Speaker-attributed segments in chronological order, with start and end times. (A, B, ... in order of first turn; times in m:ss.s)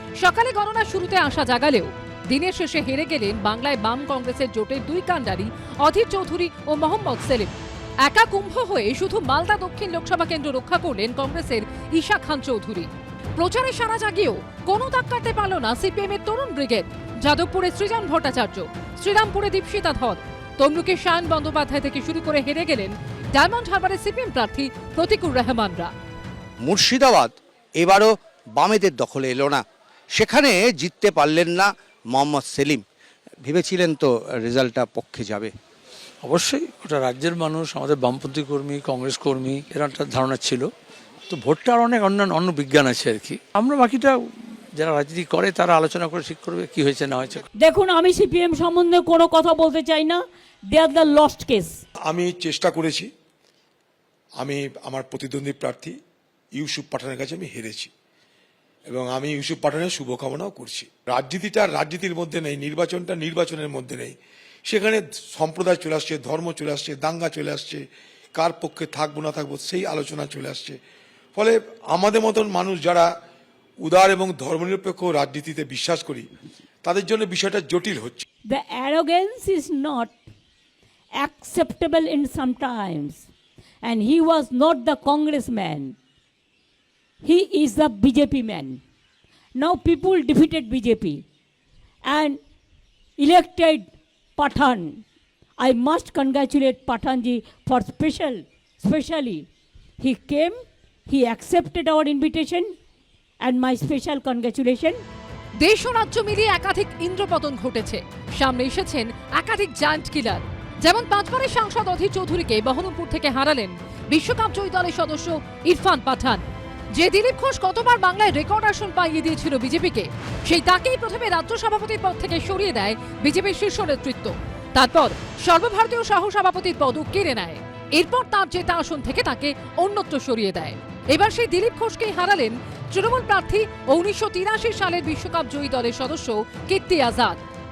0:00.2-0:25.9 A
0:26.6-0:32.8 B
0:33.4-0:35.5 B
0:36.2-0:40.7 C
0:41.3-0:44.2 C
0:44.8-0:47.4 C
0:47.6-0:51.8 D
0:52.1-0:53.1 E
0:54.4-0:56.0 E
0:56.6-0:57.9 E
0:58.9-1:04.1 E
1:04.7-1:07.8 E
1:08.4-1:10.8 E
1:11.4-1:13.1 E
1:13.8-1:16.3 E
1:16.8-1:18.2 E
1:18.5-1:20.2 D
1:21.2-1:23.2 D
1:23.8-1:26.0 D
1:27.2-1:28.8 D
1:29.6-1:31.2 D
1:32.1-1:32.4 D
1:33.2-1:35.0 D
1:35.6-1:39.5 D
1:40.0-1:42.7 D
1:43.4-1:45.0 D
1:45.6-2:17.4 A